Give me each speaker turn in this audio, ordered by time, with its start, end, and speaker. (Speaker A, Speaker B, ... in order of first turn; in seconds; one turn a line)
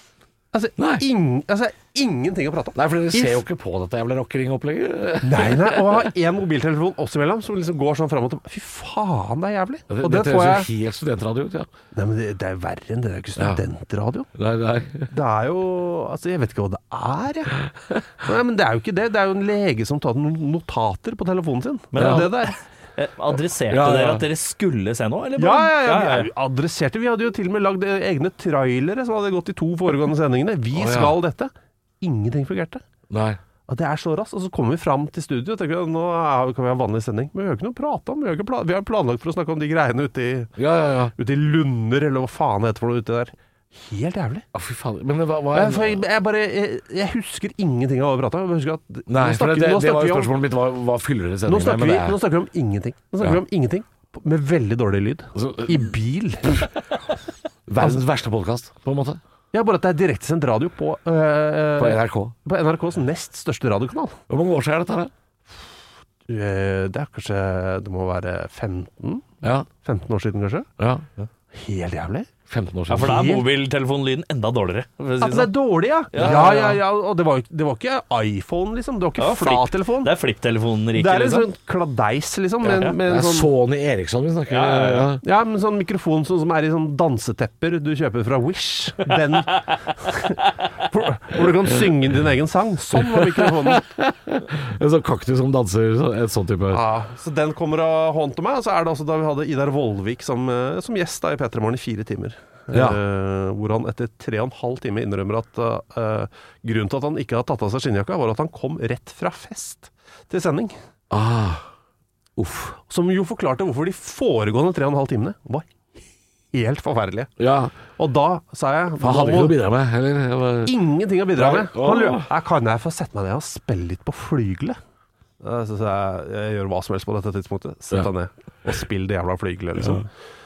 Speaker A: 0.5-3.4
Speaker B: 0.8-1.1
Speaker B: 2.8-6.1
Speaker A: 5.2-10.7
Speaker B: 9.9-11.7
Speaker A: 11.9-14.3
Speaker B: 13.4-13.6
Speaker B: 14.3-15.1
Speaker A: 15.1-17.6
Speaker A: 18.2-22.5
Speaker C: 21.9-26.3
Speaker B: 22.0-22.3
Speaker B: 23.7-24.3
Speaker A: 25.4-32.8
Speaker B: 30.7-31.2
Speaker B: 33.1-33.4
Speaker A: 33.7-40.5
Speaker B: 40.6-41.1
Speaker A: 41.1-44.5
Speaker B: 44.5-46.0
Speaker A: 45.5-50.3
Speaker B: 49.1-52.2
Speaker A: 51.5-56.7
Speaker B: 55.4-55.9
Speaker B: 57.7-59.2
Speaker A: 59.5-64.2
Speaker B: 61.8-62.4
Speaker B: 64.3-65.1
Speaker A: 66.3-70.7
Speaker B: 69.4-69.7
Speaker B: 70.8-71.0
Speaker A: 71.5-72.3
Speaker B: 72.5-73.2
Speaker A: 72.9-73.5
Speaker C: 72.9-75.5
Speaker A: 75.2-80.1
Speaker C: 76.1-76.8
Speaker B: 76.2-76.7
Speaker C: 79.2-81.5
Speaker A: 80.9-83.5
Speaker B: 82.7-85.2
Speaker C: 84.5-85.1
Speaker A: 85.2-93.9
Speaker B: 92.9-96.8
Speaker A: 96.7-110.8
Speaker B: 102.7-103.0
Speaker B: 111.1-111.7
Speaker B: 112.4-112.8
Speaker A: 112.9-115.7
Speaker A: 116.5-117.3
Speaker B: 117.4-117.8
Speaker A: 118.0-119.6
Speaker B: 119.0-120.8
Speaker A: 120.7-124.8
Speaker B: 121.3-122.3
Speaker A: 125.4-130.1
Speaker B: 129.8-130.1